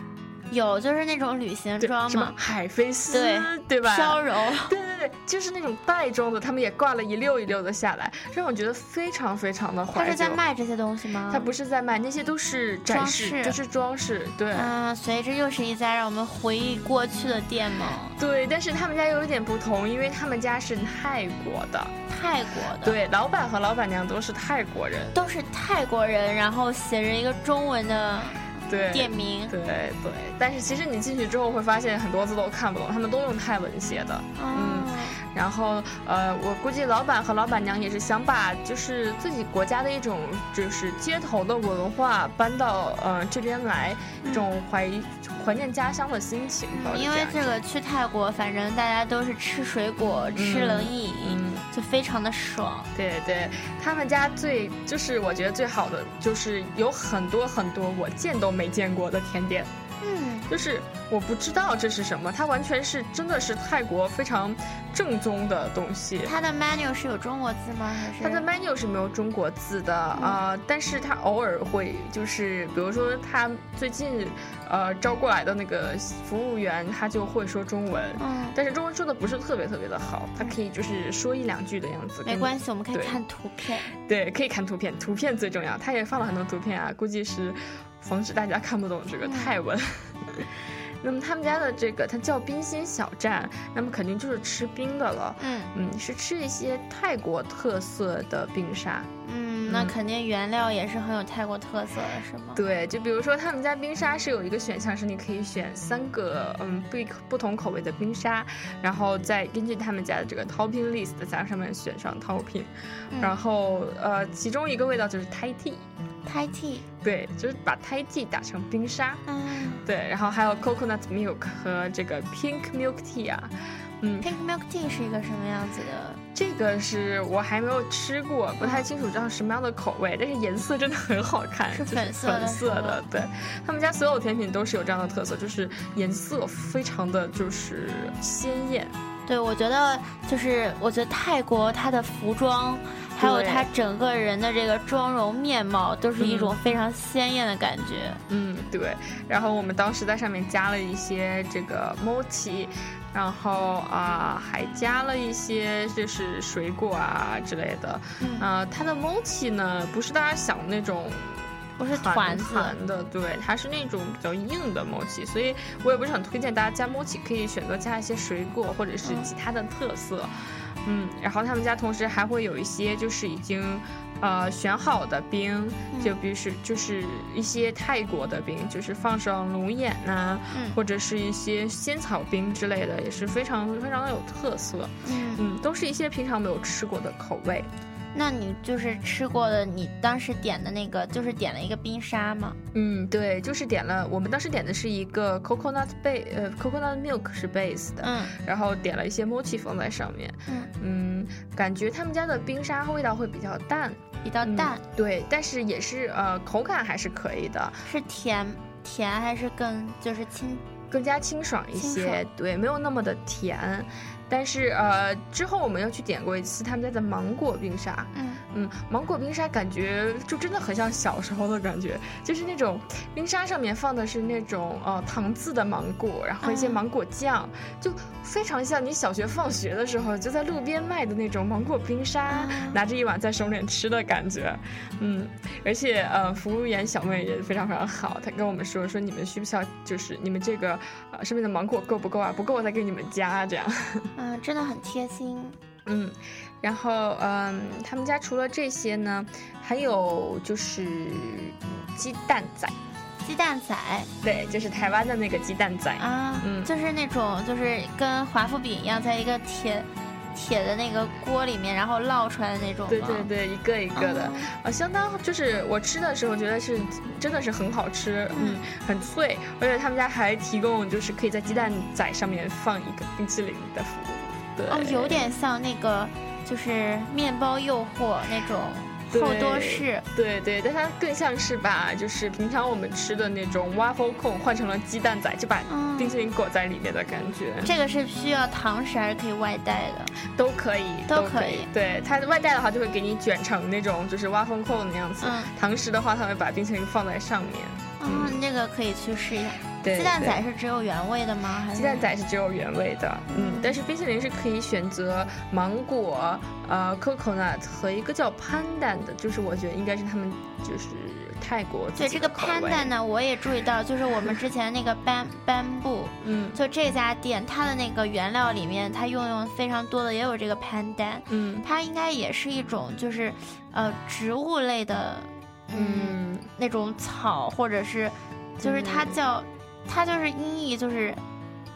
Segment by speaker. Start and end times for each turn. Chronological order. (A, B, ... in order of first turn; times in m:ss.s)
0:00.5-0:02.4 A
0:01.8-0:10.4 B
0:03.1-0:04.7 A
0:09.9-0:11.5 A
0:11.3-0:14.7 B
0:12.9-0:13.6 A
0:14.5-0:18.2 A
0:18.2-0:22.0 B
0:22.1-0:23.0 A
0:22.8-0:25.1 B
0:25.1-0:29.6 A
0:28.7-0:47.6 B
0:34.4-0:35.2 A
0:46.7-0:52.9 A
0:50.4-0:51.6 B
0:53.0-0:59.7 B
1:00.0-1:00.5 A
1:00.5-1:06.3 B
1:06.2-1:08.4 A
1:08.2-1:23.2 B
1:10.1-1:10.4 A
1:18.2-1:18.6 A
1:22.2-1:23.9 A
1:24.0-1:39.1 B
1:29.2-1:29.5 A
1:35.4-1:35.7 A
1:39.2-1:42.6 A
1:39.7-1:40.0 B
1:42.6-1:55.9 B
1:56.3-1:56.8 A
1:57.0-1:59.2 B
1:59.3-1:59.8 A
1:59.8-2:04.3 B
2:04.2-2:06.2 A
2:06.4-2:18.9 B
2:11.7-2:13.0 A
2:19.3-2:28.2 A
2:23.2-2:23.7 B
2:26.2-2:26.6 B
2:28.3-2:50.3 B
2:38.2-2:38.5 A
2:41.8-2:42.7 A
2:49.0-2:49.3 A
2:50.8-3:07.7 B
3:00.5-3:00.8 A
3:05.0-3:05.4 A
3:08.1-3:12.6 A
3:12.7-3:27.8 B
3:18.0-3:18.4 A
3:24.2-3:24.8 A
3:27.9-3:30.6 A
3:30.9-4:04.1 B
3:31.8-3:32.2 A
3:38.1-3:38.4 A
3:46.4-3:46.8 A
3:52.3-3:52.8 A
4:04.2-4:05.6 A
4:05.9-4:12.8 B
4:13.2-4:14.1 A
4:14.2-4:16.7 B
4:16.0-4:23.3 A
4:22.9-4:35.3 B
4:24.0-4:24.5 A
4:28.3-4:28.6 A
4:34.7-4:40.0 A
4:39.1-4:47.7 B
4:45.7-4:46.2 A
4:47.6-4:50.1 A
4:50.3-4:58.4 B
4:51.1-4:51.7 A
4:55.2-4:55.5 A
4:58.0-5:02.0 A
4:59.8-5:00.4 B
5:01.7-5:12.9 B
5:03.3-5:03.8 A
5:12.0-5:31.2 A
5:14.1-5:14.4 B
5:16.2-5:16.6 B
5:21.3-5:21.7 B
5:25.7-5:26.5 B
5:28.6-5:29.2 B